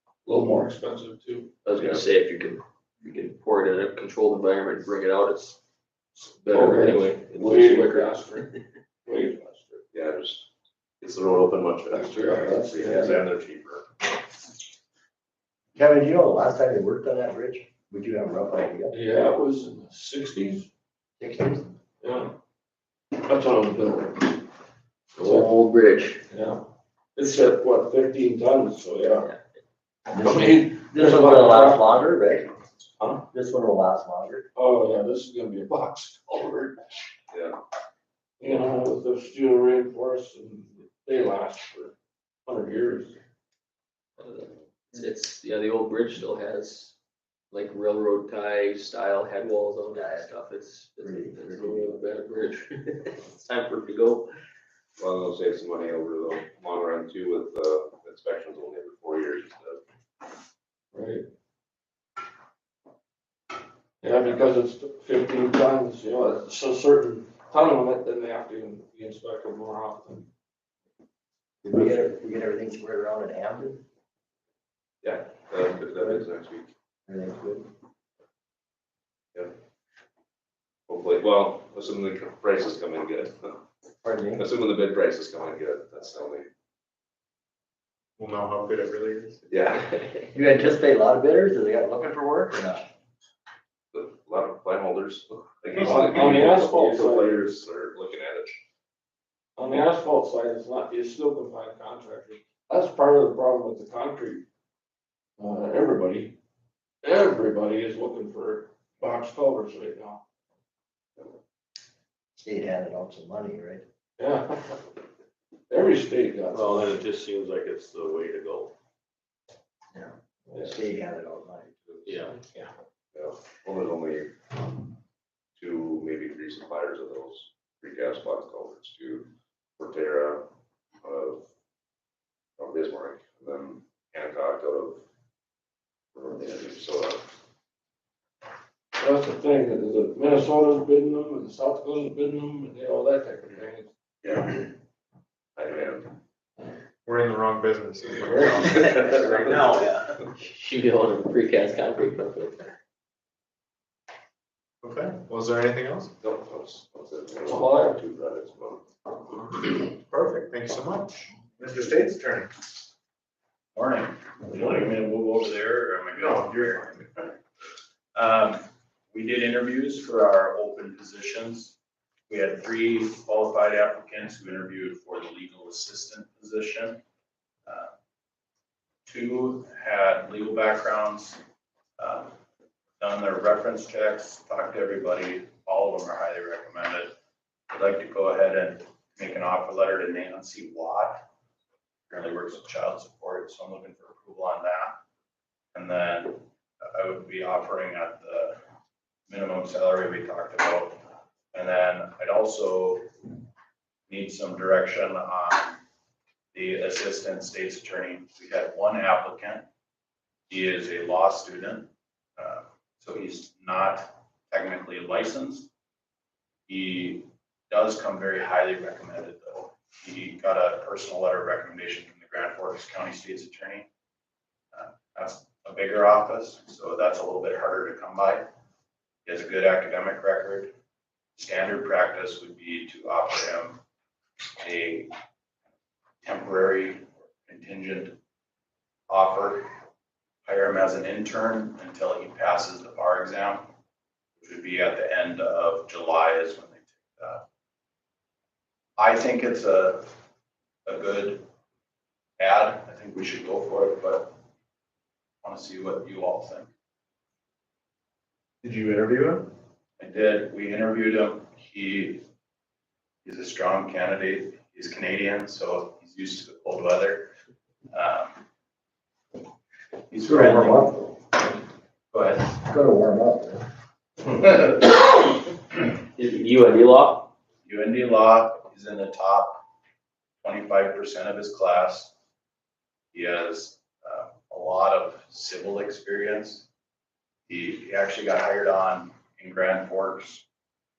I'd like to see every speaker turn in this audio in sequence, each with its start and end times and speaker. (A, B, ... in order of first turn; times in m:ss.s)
0:00.2-0:01.5 A
0:01.6-0:05.6 B
0:01.7-0:02.1 C
0:06.2-0:08.6 B
0:06.5-0:08.5 A
0:09.0-0:09.8 A
0:09.9-0:10.5 C
0:11.0-0:13.9 C
0:11.9-0:13.2 A
0:15.8-0:19.0 D
0:18.9-0:20.7 A
0:21.2-0:21.7 D
0:22.0-0:22.3 A
0:23.2-0:24.4 A
0:25.2-0:26.2 B
0:25.2-0:25.5 A
0:26.3-0:26.6 A
0:27.2-0:29.3 A
0:30.1-0:32.5 D
0:30.2-0:31.9 A
0:33.0-0:33.2 A
0:33.3-0:34.4 D
0:34.6-0:36.8 A
0:37.3-0:37.6 C
0:38.4-0:42.0 A
0:42.5-0:43.2 A
0:44.2-0:47.0 B
0:47.5-0:54.3 B
0:49.9-0:50.3 D
0:51.0-0:51.9 D
0:55.0-0:59.8 C
1:00.9-1:01.2 A
1:04.0-1:10.3 A
1:11.6-1:13.8 D
1:15.0-1:16.7 C
1:17.1-1:17.7 D
1:20.9-1:23.6 C
1:24.0-1:24.4 D
1:24.4-1:26.5 C
1:28.2-1:29.5 E
1:29.5-1:30.0 C
1:30.3-1:32.9 D
1:33.9-1:38.6 C
1:35.8-1:37.4 A
1:39.6-1:44.4 A
1:45.4-1:46.4 A
1:47.0-1:50.2 A
1:52.4-1:53.8 D
1:54.2-1:54.8 A
1:55.7-1:57.0 A
1:56.5-1:58.7 F
2:00.0-2:01.7 D
2:01.9-2:02.2 C
2:02.1-2:02.4 F
2:03.1-2:04.6 C
2:05.6-2:10.4 C
2:11.0-2:11.4 C
2:12.6-2:15.0 C
2:16.2-2:17.3 C
2:19.0-2:23.9 A
2:24.2-2:24.7 C
2:25.6-2:26.2 C
2:27.1-2:28.9 E
2:28.5-2:32.8 B
2:28.6-2:30.0 C
2:34.8-2:36.1 E
2:36.2-2:38.9 C
2:37.5-2:38.0 A
2:39.9-2:42.5 E
2:43.8-2:47.2 G
2:44.5-2:44.9 E
2:46.1-2:47.0 E
2:48.2-2:51.8 G
2:52.3-2:57.0 G
2:57.7-2:57.9 G
2:59.1-3:01.4 G
3:02.0-3:02.3 G
3:03.0-3:07.1 G
3:07.7-3:11.2 G
3:12.1-3:15.0 G
3:15.7-3:18.6 G
3:19.3-3:21.0 G
3:21.5-3:23.1 G
3:24.1-3:25.8 G
3:26.5-3:29.6 G
3:30.5-3:35.7 G
3:36.7-3:43.9 G
3:44.7-3:48.4 G
3:49.2-3:50.7 G
3:51.4-3:53.8 G
3:54.6-3:55.1 G
3:56.2-3:58.2 G
3:59.1-3:59.7 G
4:00.4-4:03.7 G
4:04.4-4:07.4 G
4:09.0-4:10.1 G
4:10.9-4:11.4 G
4:12.4-4:14.3 G
4:15.4-4:16.7 G
4:18.6-4:19.5 E
4:20.0-4:22.2 G
4:23.2-4:27.3 G
4:27.9-4:28.4 G
4:30.1-4:31.1 G
4:30.3-4:31.1 D
4:32.1-4:32.4 G
4:32.5-4:33.7 D
4:36.2-4:37.3 B
4:37.6-4:39.6 G
4:40.4-4:42.1 G
4:43.1-4:46.7 G
4:47.5-4:50.4 G